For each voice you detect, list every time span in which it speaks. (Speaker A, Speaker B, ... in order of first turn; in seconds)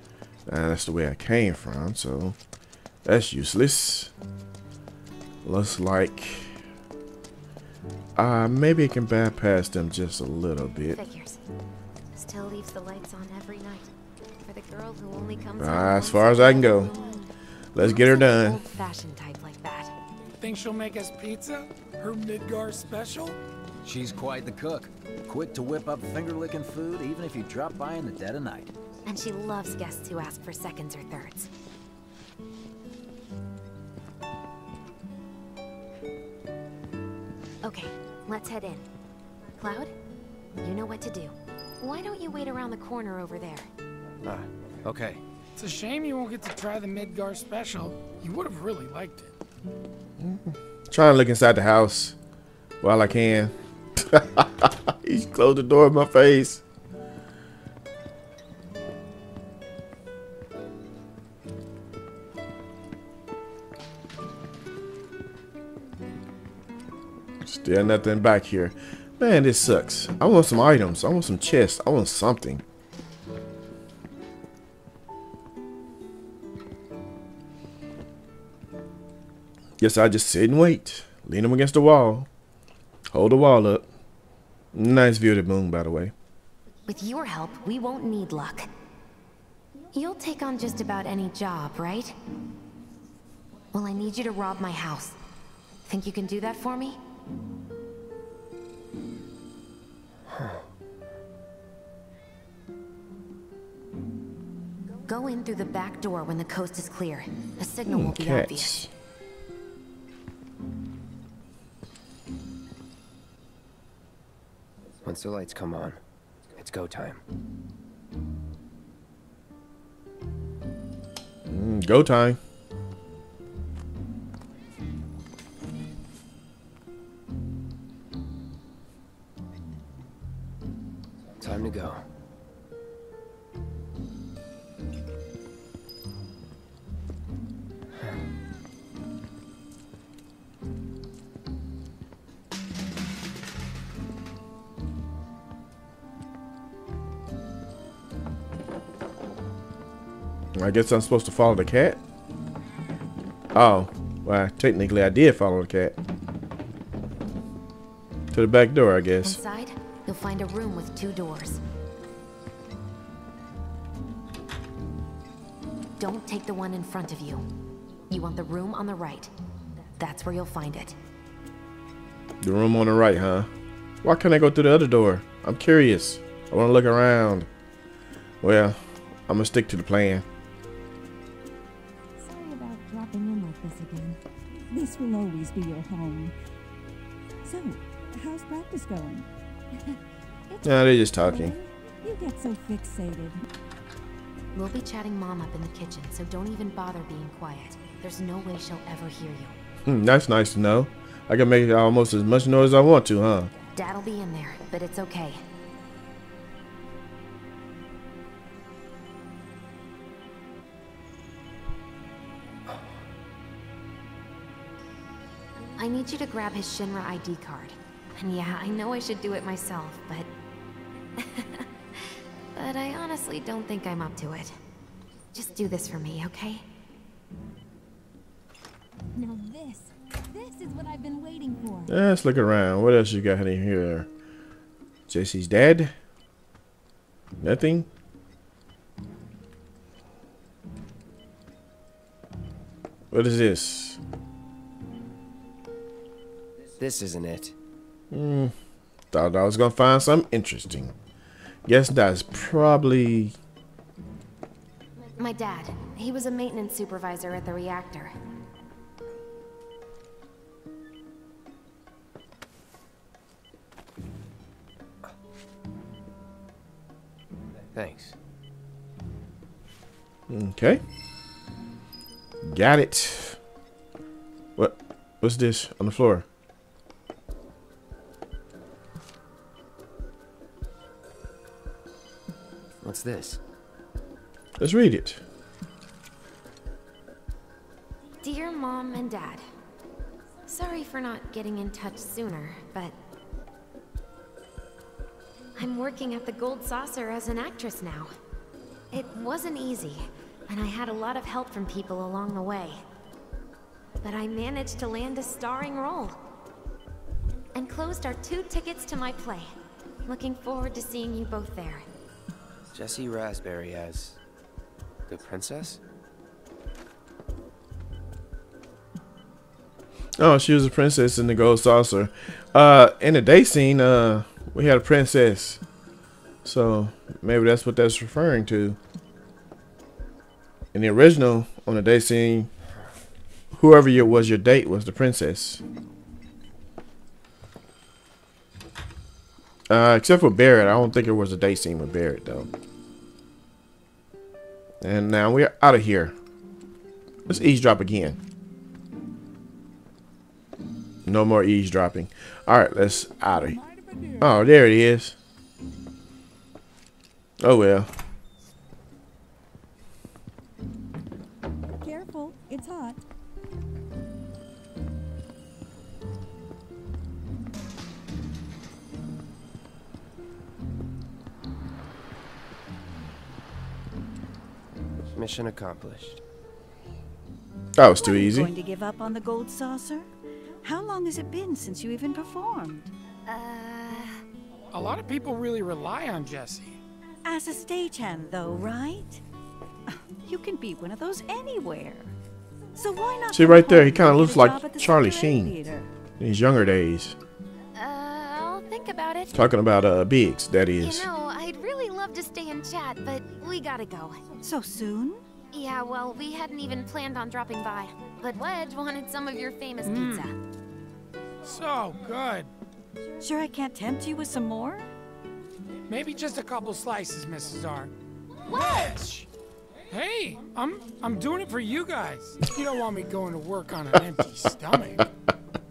Speaker A: 0.5-2.4, 3.0-4.1, 5.4-6.6, 8.2-11.0, 15.6-16.9, 17.7-18.6, 50.2-52.2, 52.8-56.6, 67.4-72.6, 79.8-82.3, 83.1-83.9, 84.7-86.1, 107.9-108.9, 121.5-122.4, 150.6-152.0, 153.5-156.0, 158.3-159.4, 172.4-173.5, 174.0-177.5, 178.4-180.2, 190.6-191.6, 199.9-203.5, 231.9-234.1, 235.1-235.9, 237.4-237.9, 243.1-244.0, 248.1-248.5, 249.1-250.9, 251.7-253.4, 270.3-270.8, 272.4-273.4, 274.6-276.3, 284.6-285.2, 320.2-325.6, 326.4-328.8, 330.7-332.5, 333.5-335.6, 339.7-342.5, 344.8-346.1, 347.3-348.2, 351.1-353.6, 354.2-355.2, 357.4-357.9, 377.8-378.5, 393.3-395.6, 396.2-397.2, 399.3-401.1
Speaker B: 10.9-11.4, 12.1-13.9, 14.4-19.9, 29.1-31.5, 37.6-38.9, 39.6-39.9, 40.6-43.7, 86.9-88.7, 89.9-92.2, 93.7-95.2, 95.9-97.0, 105.1-108.8, 159.2-161.6, 166.0-167.4, 168.1-169.3, 170.0-170.9, 194.6-199.6, 203.8-205.4, 215.8-220.3, 221.2-224.6, 225.3-226.6, 255.2-258.1, 288.2-289.4, 290.5-292.9, 295.6-298.1, 298.9-302.8, 304.0-306.2, 307.6-309.5, 310.1-311.9, 383.3-384.0, 397.8-399.4, 400.8-404.2, 405.5-410.4, 418.5-418.9
Speaker C: 20.4-23.4, 45.6-49.3, 384.7-386.8, 409.8-410.3, 411.4-412.5, 415.9-417.9, 418.5-419.3, 419.9-425.1
Speaker D: 23.8-28.7
Speaker E: 44.2-45.2, 115.0-116.0, 116.6-117.2, 131.4-132.0, 246.8-247.6, 267.7-268.1, 282.8-283.4, 312.7-314.2, 315.1-315.8, 375.1-376.2
Speaker F: 182.2-184.2, 184.7-186.3, 187.4-189.3, 190.5-193.4, 229.2-231.9, 353.4-354.3, 361.8-363.0
Speaker G: 377.9-380.1, 380.6-382.9, 387.2-389.2, 390.3-392.1, 392.8-395.9, 404.4-405.2, 413.2-414.9